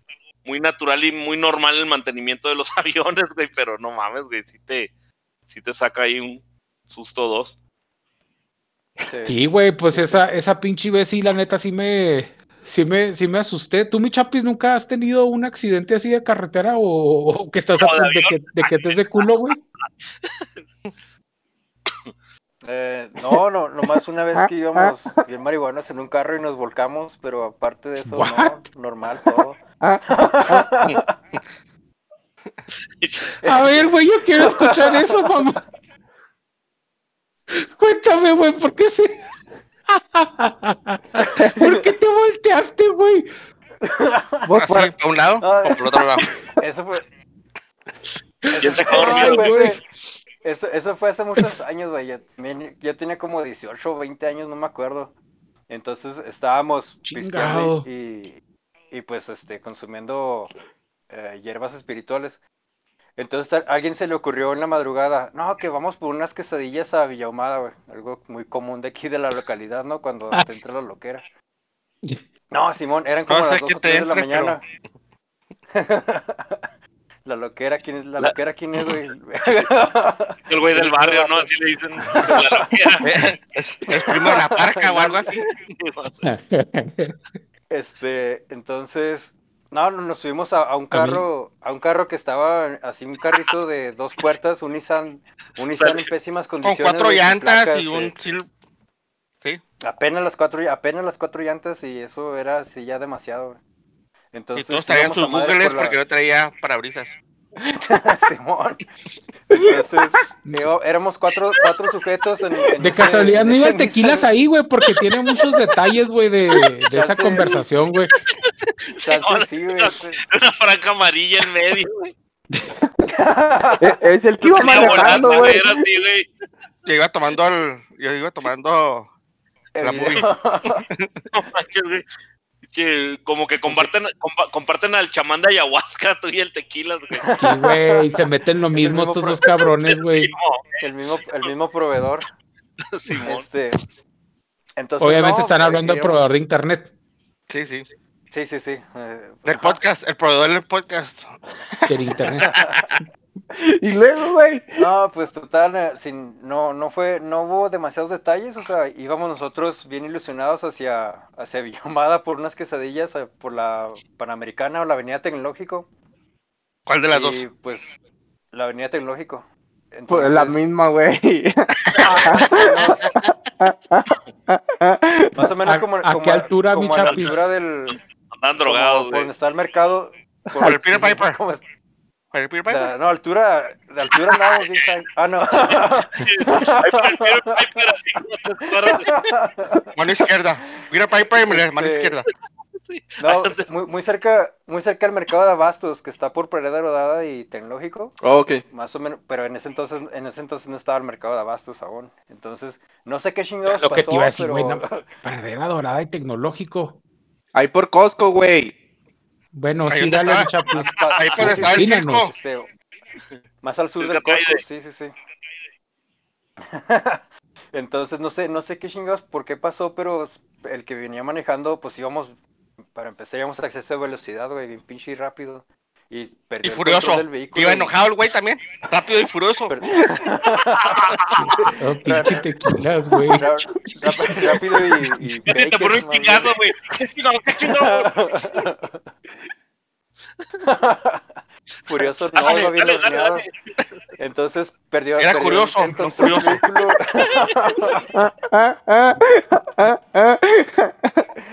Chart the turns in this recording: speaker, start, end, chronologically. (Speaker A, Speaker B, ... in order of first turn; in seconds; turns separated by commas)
Speaker A: 0.4-4.9, Speaker A: 5.5-7.6, Speaker B: 9.0-10.2, Speaker C: 9.2-19.6, Speaker A: 17.8-18.9, Speaker B: 22.6-31.1, Speaker D: 24.3-24.9, Speaker C: 28.1-28.6, Speaker D: 29.8-30.6, Speaker A: 33.0-33.4, Speaker B: 33.4-35.4, Speaker C: 33.4-35.6, Speaker C: 37.5-39.2, Speaker C: 39.9-43.3, Speaker B: 41.2-41.8, Speaker B: 43.8-44.5, Speaker D: 44.4-44.9, Speaker E: 44.5-46.3, Speaker B: 45.4-47.0, Speaker C: 48.5-50.2, Speaker B: 48.5-49.8, Speaker A: 48.6-49.5, Speaker B: 50.4-55.1, Speaker B: 55.7-60.5, Speaker C: 57.0-57.9, Speaker B: 61.1-62.4, Speaker B: 63.1-71.2, Speaker B: 72.5-74.6, Speaker E: 73.3-74.6, Speaker B: 75.7-76.6, Speaker B: 77.2-81.5, Speaker A: 80.5-83.1, Speaker B: 82.2-82.6, Speaker E: 83.0-85.6, Speaker B: 84.2-85.3, Speaker A: 85.8-86.2, Speaker C: 86.2-87.2, Speaker B: 87.7-98.1, Speaker C: 90.9-91.2, Speaker A: 95.8-96.1, Speaker E: 96.6-98.5, Speaker B: 99.8-103.6, Speaker B: 104.3-106.0, Speaker E: 104.5-107.1, Speaker B: 107.8-108.8, Speaker B: 109.5-114.3, Speaker D: 109.5-109.8, Speaker C: 112.8-118.1, Speaker B: 116.9-117.6, Speaker A: 118.2-122.1, Speaker B: 119.0-120.2, Speaker B: 123.0-124.0, Speaker D: 123.8-125.8, Speaker A: 124.4-126.3, Speaker B: 124.5-125.6, Speaker E: 126.8-129.1, Speaker B: 129.7-130.8, Speaker E: 129.8-131.2, Speaker A: 131.3-132.0, Speaker A: 132.7-137.2, Speaker B: 137.1-138.1, Speaker C: 137.4-140.3, Speaker B: 138.7-139.7, Speaker A: 139.8-140.8, Speaker B: 140.8-142.3, Speaker A: 142.9-143.4, Speaker B: 143.2-143.8, Speaker B: 144.8-146.2, Speaker C: 145.0-146.9, Speaker E: 147.5-147.8, Speaker B: 148.3-149.8, Speaker E: 149.4-151.3, Speaker C: 151.9-152.5, Speaker B: 152.4-152.8, Speaker E: 152.5-152.9, Speaker D: 153.6-154.9, Speaker B: 154.7-165.9, Speaker E: 166.9-167.4, Speaker B: 167.1-167.9, Speaker B: 168.5-170.7, Speaker D: 170.1-172.7, Speaker E: 171.9-173.3, Speaker B: 172.0-173.1, Speaker D: 173.6-175.4, Speaker B: 175.3-178.0, Speaker C: 175.7-177.5, Speaker A: 177.0-179.3, Speaker B: 178.6-181.6, Speaker E: 180.6-181.3, Speaker E: 182.3-182.9, Speaker B: 182.7-187.7, Speaker A: 184.3-184.8, Speaker A: 185.7-189.2, Speaker B: 188.6-189.9, Speaker E: 189.9-192.3, Speaker B: 191.4-192.2, Speaker A: 192.9-193.7, Speaker B: 193.2-205.1, Speaker D: 198.2-198.6, Speaker C: 203.6-207.0, Speaker D: 207.5-208.7, Speaker C: 209.5-210.8, Speaker E: 209.9-212.3, Speaker B: 210.6-212.7, Speaker C: 211.4-212.3, Speaker B: 213.6-215.1, Speaker A: 214.0-214.6, Speaker B: 216.6-222.4, Speaker B: 222.9-227.9, Speaker E: 226.6-229.8, Speaker B: 229.7-232.4, Speaker A: 230.5-231.5, Speaker C: 231.7-233.4, Speaker B: 233.3-236.5, Speaker A: 234.1-234.4, Speaker C: 235.0-235.3, Speaker A: 235.5-238.6, Speaker B: 237.6-239.1, Speaker B: 240.6-243.5, Speaker A: 242.3-243.5, Speaker B: 244.2-248.2, Speaker E: 245.2-246.7, Speaker A: 247.1-247.7, Speaker D: 248.1-251.3